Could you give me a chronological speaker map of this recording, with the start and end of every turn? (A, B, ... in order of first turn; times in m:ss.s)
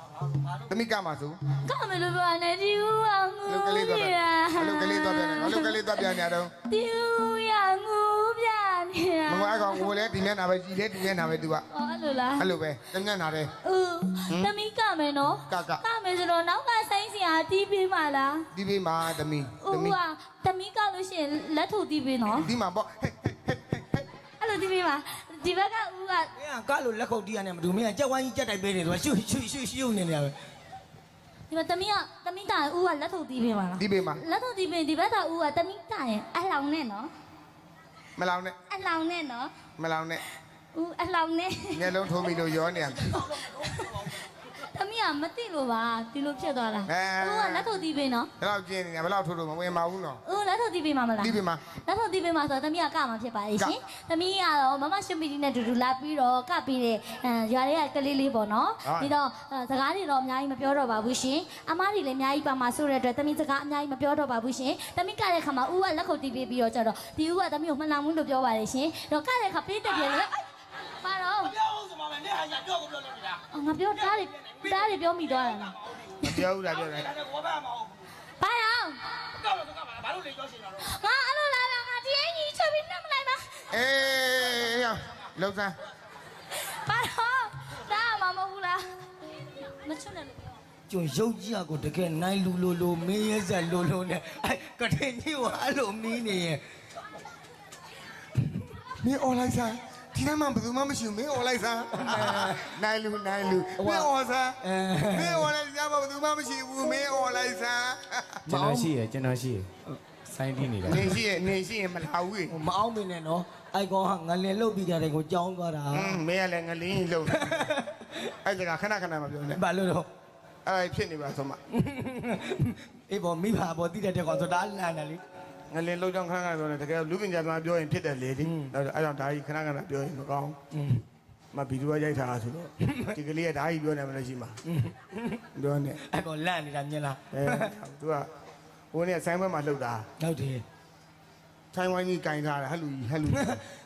0:00.7-0:01.4 A
0:01.6-0:06.1 B
0:03.5-0:06.5 A
0:06.7-0:10.0 B
0:09.3-0:11.6 A
0:11.7-0:12.5 B
0:12.4-0:13.5 A
0:13.6-0:18.5 B
0:15.5-0:15.8 A
0:18.5-0:20.0 A
0:19.6-0:22.5 B
0:22.4-0:24.0 A
0:24.4-0:26.3 B
0:26.4-0:30.4 C
0:31.5-0:37.1 B
0:33.8-0:34.2 A
0:38.2-0:38.6 A
0:38.7-0:39.5 B
0:39.8-0:40.2 A
0:40.7-0:42.0 B
0:41.7-0:43.2 A
0:43.4-0:48.3 B
0:46.9-0:47.7 A
0:48.4-0:50.2 A
0:50.2-1:10.4 B
0:51.2-0:51.6 A
0:58.8-0:59.1 A
1:11.0-1:11.6 B
1:11.7-1:13.4 C
1:13.5-1:16.4 B
1:16.2-1:17.1 A
1:17.1-1:17.8 C
1:18.4-1:19.0 B
1:19.6-1:20.6 C
1:20.8-1:23.7 B
1:23.7-1:25.8 A
1:26.6-1:28.9 B
1:29.7-1:30.5 B
1:30.9-1:36.6 C
1:39.0-1:44.6 A
1:42.0-1:42.7 C
1:43.8-1:44.1 C
1:44.6-1:45.5 C
1:45.1-1:48.4 A
1:48.5-1:49.7 D
1:48.5-1:48.9 C
1:50.2-1:51.1 D
1:50.9-1:52.5 A
1:52.5-1:56.2 C
1:55.9-1:57.7 A
1:57.3-1:58.3 C
1:58.4-1:59.6 A
1:59.6-2:00.1 C
2:00.6-2:01.6 A
2:01.7-2:05.2 C
2:05.7-2:10.6 A
2:08.4-2:08.7 C
2:10.7-2:11.0 C
2:11.5-2:14.6 A
2:12.8-2:13.2 C
2:14.6-2:15.4 C
2:15.6-2:16.0 A
2:16.1-2:17.7 C
2:17.3-2:18.3 A
2:18.9-2:20.1 A
2:20.2-2:20.6 C
2:21.7-2:23.6 A
2:23.3-2:23.6 C